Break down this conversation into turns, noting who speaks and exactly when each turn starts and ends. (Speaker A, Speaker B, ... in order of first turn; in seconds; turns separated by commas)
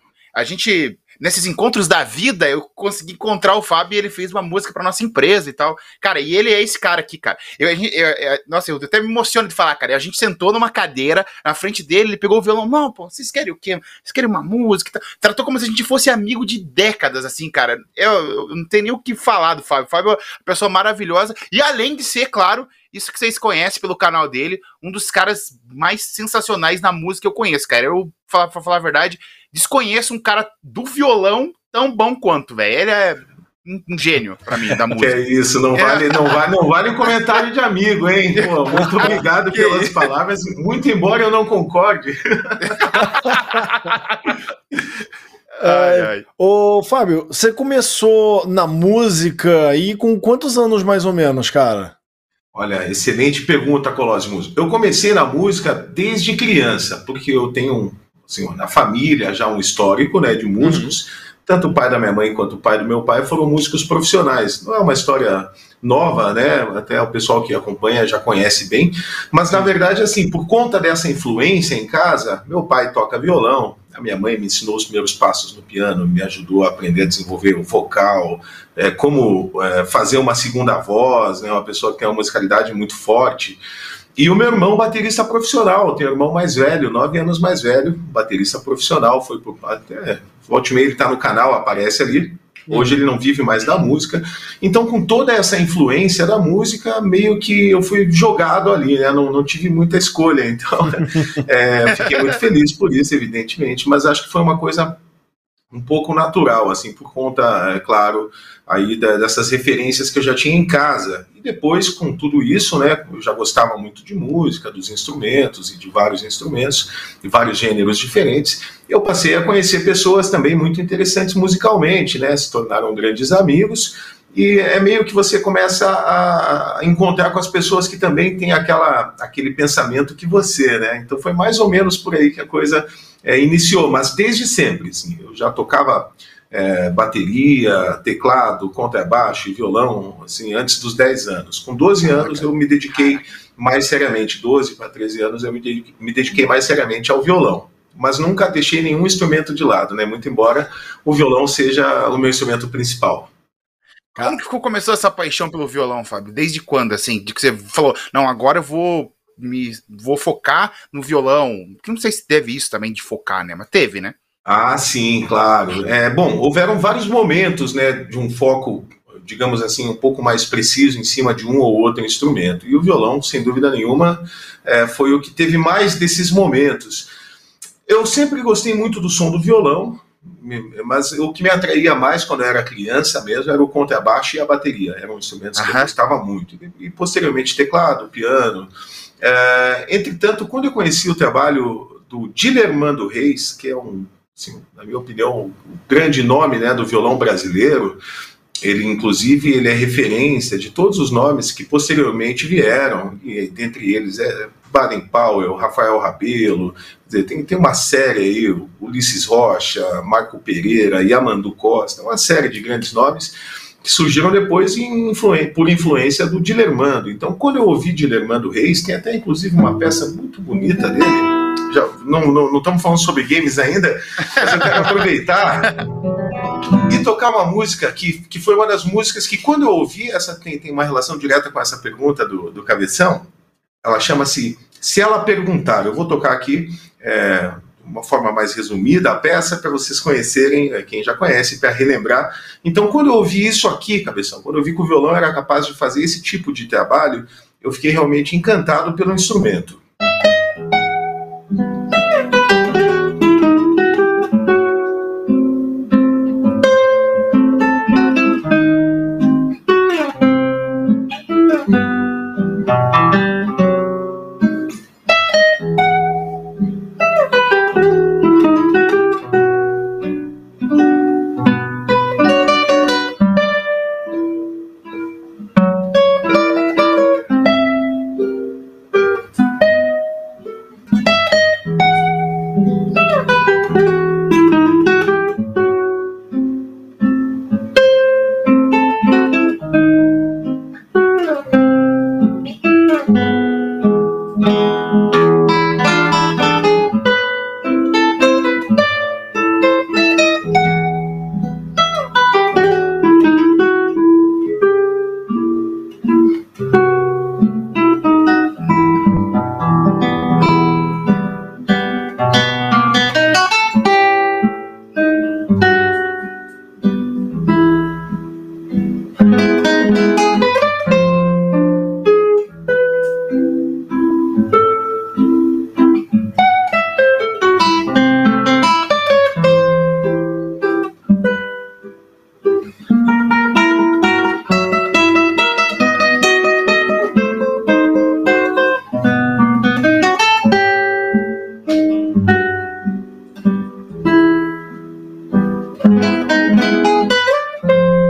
Speaker A: 0.3-35.2, Speaker B: 34.9-43.0, Speaker A: 35.7-36.4, Speaker A: 38.4-40.0, Speaker A: 42.6-44.2, Speaker A: 45.6-46.2, Speaker C: 45.6-51.9, Speaker B: 52.5-83.6, Speaker C: 60.6-60.9, Speaker B: 84.2-105.0, Speaker C: 92.7-93.0, Speaker A: 102.0-102.3, Speaker B: 105.7-153.3, Speaker A: 154.2-164.1, Speaker B: 164.4-177.1, Speaker B: 177.9-198.0, Speaker A: 185.6-185.9, Speaker B: 198.6-225.7, Speaker B: 226.8-233.3, Speaker B: 233.8-249.8